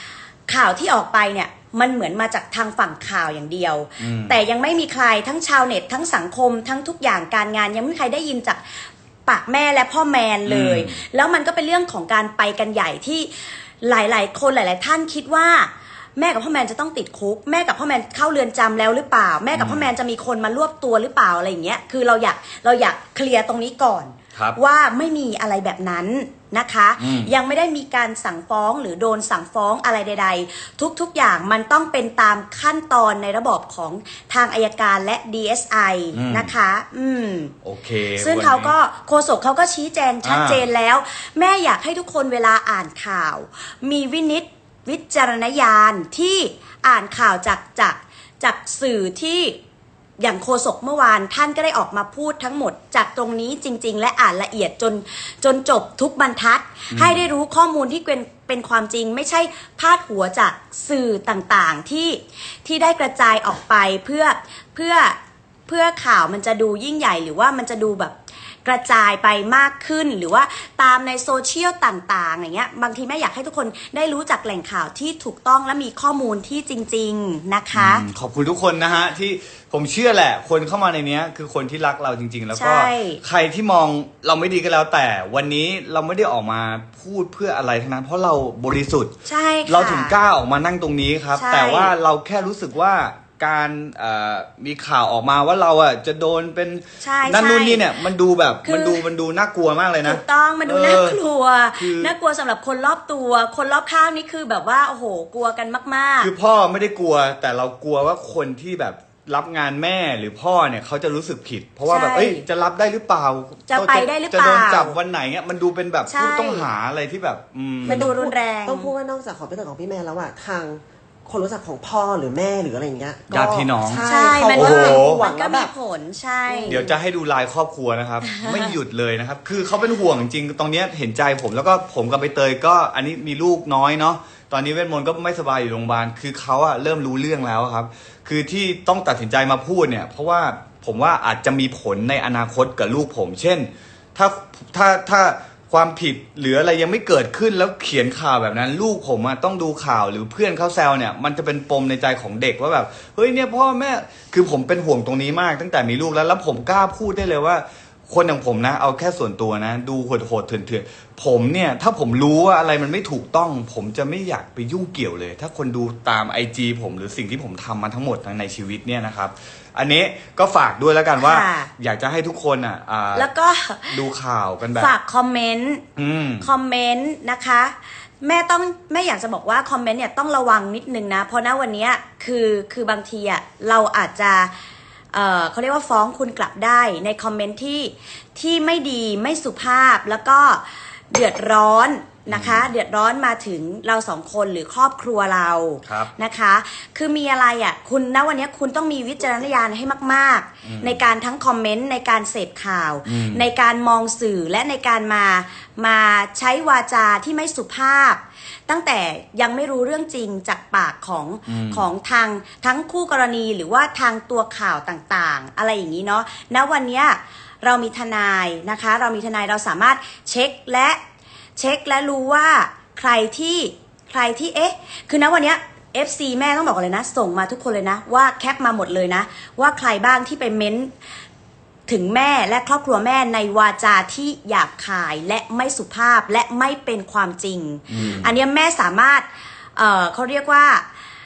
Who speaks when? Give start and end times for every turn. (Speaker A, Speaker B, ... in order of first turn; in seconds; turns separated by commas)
Speaker A: 0.5-37.5, Speaker B: 4.0-4.4, Speaker B: 10.5-11.0, Speaker B: 19.5-19.9, Speaker B: 27.0-27.3, Speaker B: 36.1-36.5, Speaker B: 37.6-38.7, Speaker A: 38.2-49.6, Speaker B: 40.2-40.6, Speaker A: 50.2-78.0, Speaker B: 56.9-57.3, Speaker B: 77.7-89.1, Speaker A: 82.5-83.2, Speaker A: 89.2-90.1, Speaker B: 89.7-101.2, Speaker A: 91.4-91.9, Speaker A: 97.0-97.9, Speaker A: 98.6-99.0, Speaker A: 100.0-106.3, Speaker B: 101.8-102.1, Speaker B: 106.2-118.1, Speaker A: 111.9-112.5, Speaker A: 113.7-115.0, Speaker A: 116.1-116.7, Speaker C: 117.8-125.7, Speaker A: 117.8-118.9, Speaker B: 123.3-125.2, Speaker A: 124.0-126.9, Speaker C: 126.5-126.9, Speaker B: 126.7-173.3, Speaker A: 128.2-128.7, Speaker A: 171.2-171.7, Speaker A: 173.1-174.0, Speaker B: 173.9-174.9, Speaker A: 174.8-175.8, Speaker B: 176.0-176.5, Speaker A: 176.4-184.5, Speaker A: 185.1-221.0, Speaker B: 192.3-192.7, Speaker B: 195.9-196.1, Speaker B: 200.6-201.0, Speaker B: 203.1-203.5, Speaker B: 211.5-211.8, Speaker A: 221.6-230.9, Speaker A: 231.9-240.8, Speaker B: 237.9-238.3